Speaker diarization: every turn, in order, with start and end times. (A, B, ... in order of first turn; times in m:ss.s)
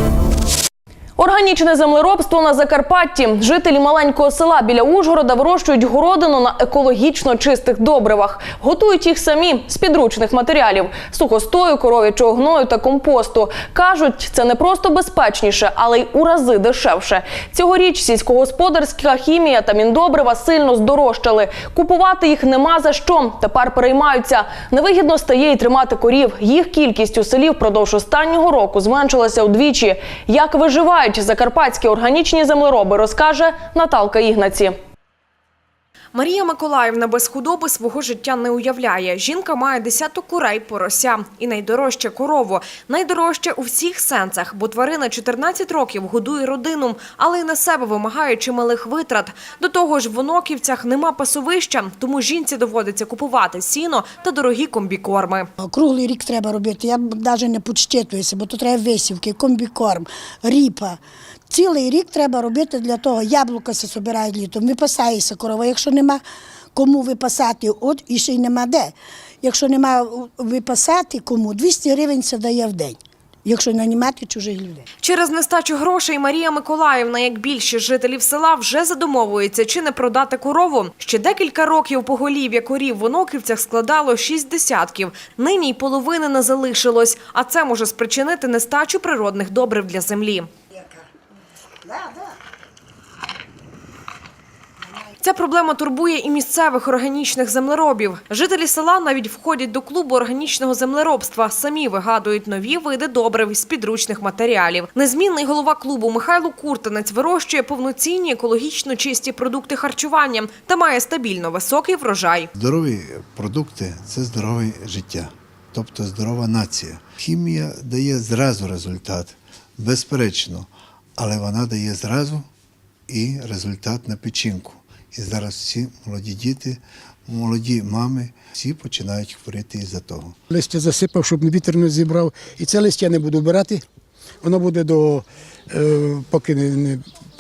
0:01.2-0:34.8 A
0:36.1-0:55.5 B
0:55.6-1:01.0 C
1:01.5-1:06.2 C
1:06.8-1:14.9 C
1:15.0-1:30.5 B
1:35.2-1:52.5 B
1:52.5-2:02.5 D
2:03.1-2:10.4 D
2:10.5-2:13.8 E
2:14.4-2:17.0 E